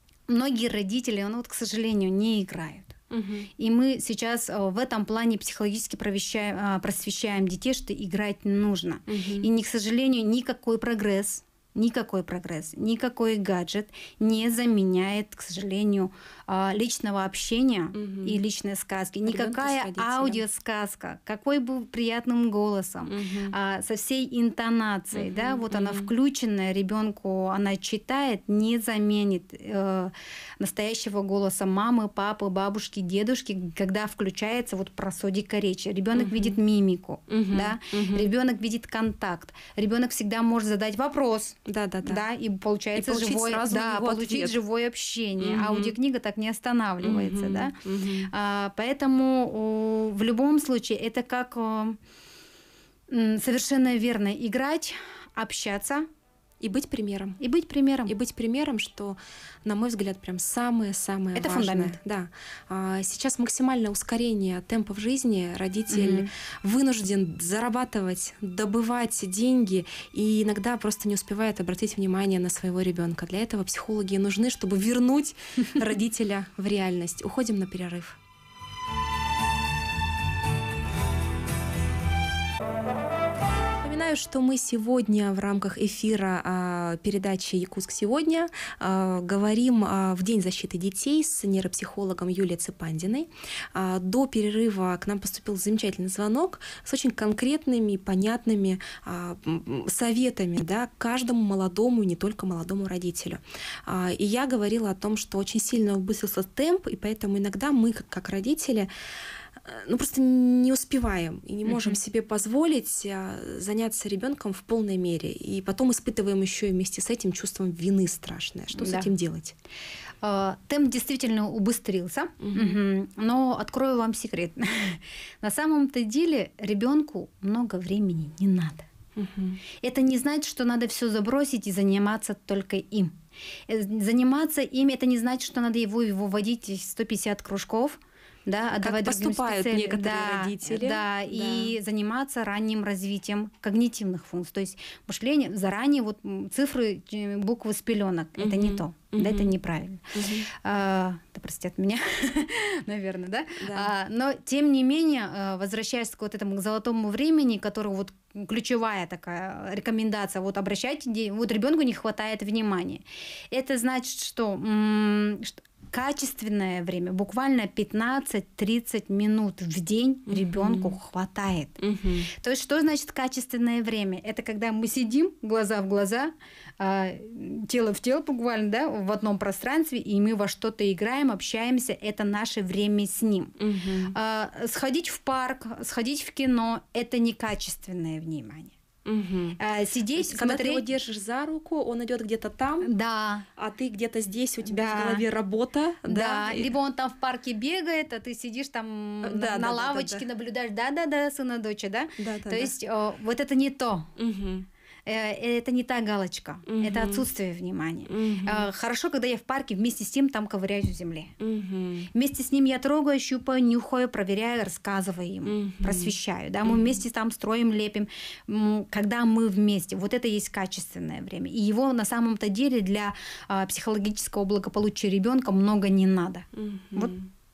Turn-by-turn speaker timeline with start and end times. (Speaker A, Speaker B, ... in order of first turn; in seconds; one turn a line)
Speaker A: 0.3-3.0
Speaker B: 3.1-3.5
Speaker A: 3.6-52.0
Speaker B: 9.1-9.5
Speaker B: 17.9-18.4
Speaker B: 19.2-20.4
Speaker B: 23.1-23.6
Speaker B: 25.1-26.1
Speaker B: 36.1-36.6
Speaker B: 37.3-38.3
Speaker B: 41.7-42.2
Speaker B: 43.0-44.6
Speaker B: 45.4-46.0
Speaker B: 47.0-48.3
Speaker A: 53.1-56.1
Speaker B: 56.6-57.4
Speaker A: 57.4-58.1
Speaker B: 58.1-78.2
Speaker A: 61.4-62.0
Speaker A: 65.9-66.3
Speaker B: 83.8-108.9
Speaker B: 109.6-119.6
Speaker A: 111.7-112.0
Speaker A: 118.7-119.1
Speaker A: 120.2-128.9
Speaker B: 122.4-122.8
Speaker B: 129.2-129.6
Speaker A: 129.8-133.2
Speaker A: 133.7-171.8
Speaker B: 138.8-141.7
Speaker B: 148.4-149.6
Speaker B: 150.1-150.5
Speaker B: 153.6-153.9
Speaker B: 170.3-171.0
Speaker B: 171.8-172.3
Speaker A: 172.3-183.6
Speaker B: 183.6-184.2
Speaker A: 184.1-188.8
Speaker B: 189.1-189.6
Speaker A: 189.6-190.8
Speaker B: 190.2-192.9
Speaker A: 192.8-193.5
Speaker B: 193.6-196.7
Speaker A: 194.7-195.3
Speaker A: 196.1-204.1
Speaker B: 199.2-200.3
Speaker B: 202.2-202.7
Speaker B: 204.2-204.7
Speaker A: 205.1-211.3
Speaker B: 206.7-207.3
Speaker B: 208.1-208.7
Speaker B: 211.4-212.1
Speaker A: 212.1-227.2
Speaker B: 215.5-217.0
Speaker B: 226.5-227.3